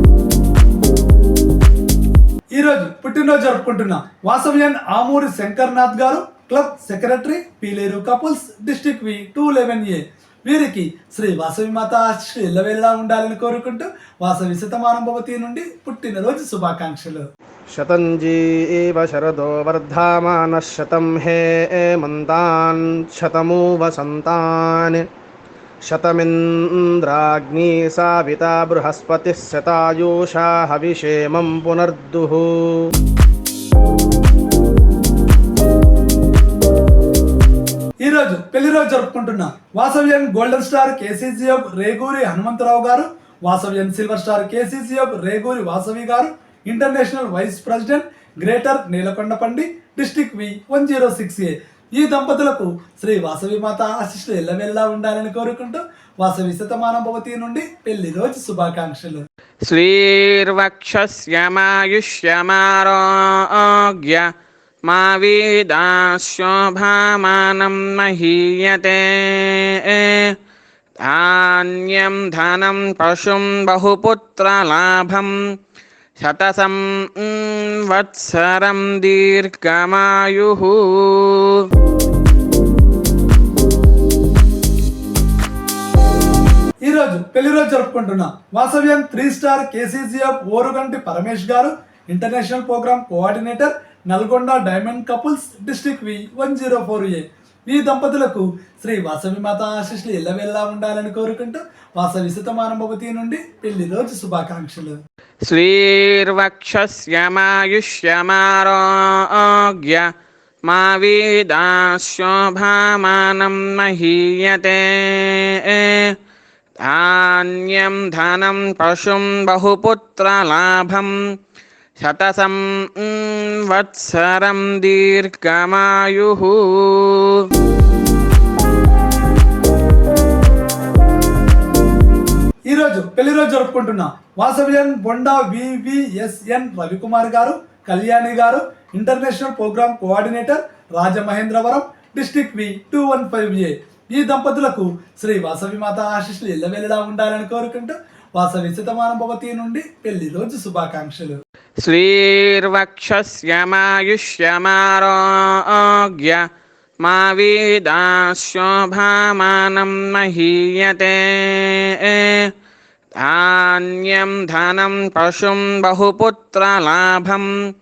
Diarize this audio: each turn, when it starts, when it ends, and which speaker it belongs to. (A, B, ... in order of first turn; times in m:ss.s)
0:02.5-0:17.2 A
0:17.7-0:25.0 B
0:25.8-0:32.9 B
0:38.0-0:59.2 A
0:59.7-1:04.3 C
1:04.9-1:10.3 C
1:11.0-1:15.4 C
1:16.2-1:21.6 C
1:26.8-1:45.0 A
1:45.5-1:50.1 C
1:50.7-1:56.1 C
1:56.8-2:01.2 C
2:02.0-2:07.5 C
2:12.7-2:31.4 A
2:31.8-2:36.4 C
2:37.0-2:42.5 C
2:43.2-2:47.5 C